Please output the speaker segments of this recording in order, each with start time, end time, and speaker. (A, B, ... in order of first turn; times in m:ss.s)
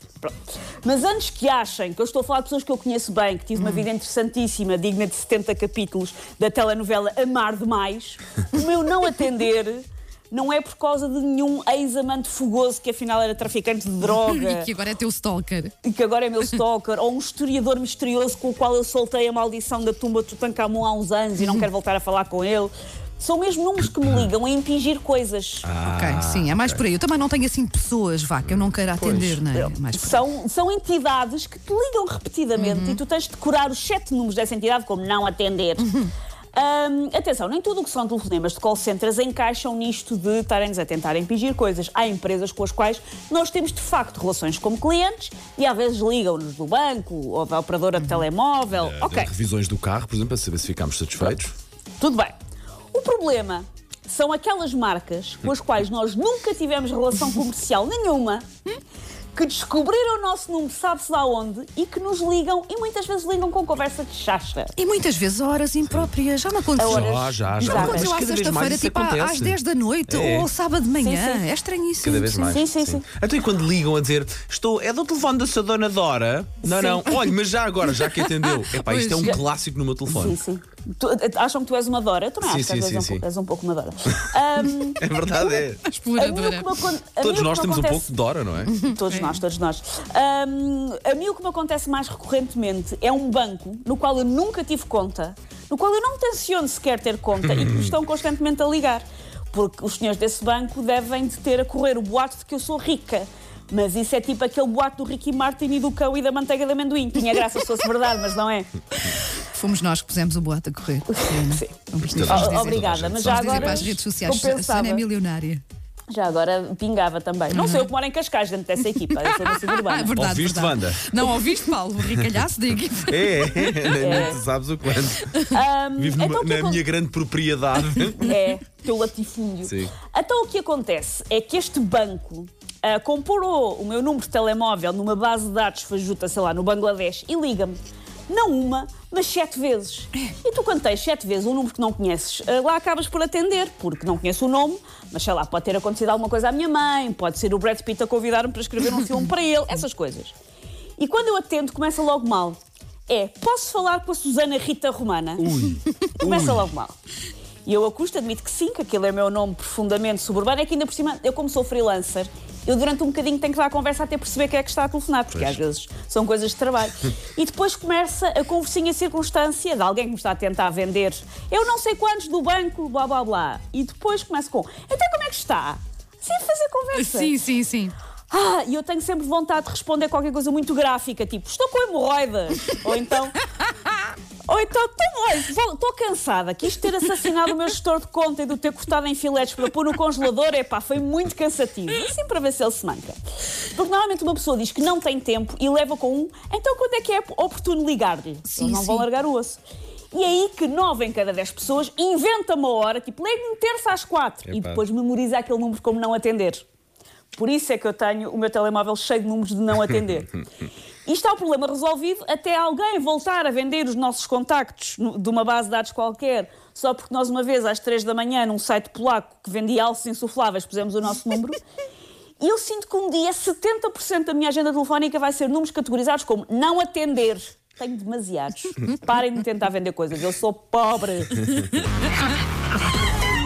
0:00.2-0:14.7 A
0:03.6-0:03.8 B
0:14.2-0:15.7 B
0:15.8-0:25.7 A
0:25.6-0:26.8 C
0:25.8-0:30.2 B
0:28.5-0:29.4 C
0:29.5-0:35.9 A
0:32.6-0:33.0 B
0:35.8-0:36.1 B
0:36.5-0:49.3 A
0:48.7-0:51.5 C
0:52.0-0:52.3 A
0:52.9-0:58.4 A
0:59.3-1:04.7 A
1:04.8-1:12.6 B
1:06.8-1:08.2 A
1:06.8-1:10.5 C
1:11.0-1:11.5 A
1:12.0-1:20.4 C
1:12.5-1:13.0 A
1:16.6-1:17.1 A
1:18.7-1:19.4 B
1:20.1-1:25.6 A
1:22.4-1:23.2 C
1:24.9-1:25.9 C
1:25.9-1:26.8 B
1:26.2-1:28.1 A
1:27.2-1:28.7 C
1:28.8-1:29.4 B
1:28.8-1:48.7 A
1:49.5-1:55.6 B
1:51.4-1:55.0 A
1:52.0-1:54.0 C
1:56.1-2:00.1 A
1:57.5-1:57.9 B
1:59.7-2:04.1 B
2:00.1-2:01.2 C
2:02.0-2:02.3 C
2:03.1-2:05.3 C
2:04.0-2:04.4 A
2:05.2-2:05.6 B
2:05.5-2:06.8 A
2:06.0-2:08.3 C
2:08.1-2:30.3 A
2:09.6-2:09.9 C
2:31.0-2:35.5 A
2:35.4-2:36.7 C
2:36.2-2:37.0 A
2:37.6-2:57.3 A
2:56.9-2:58.0 B
2:58.3-3:03.4 A
3:04.5-3:13.2 A
3:13.7-3:19.6 A
3:18.4-3:19.0 B
3:20.1-3:26.6 A
3:24.4-3:24.8 C
3:27.3-3:30.4 A
3:31.0-3:41.6 A
3:42.4-3:51.7 A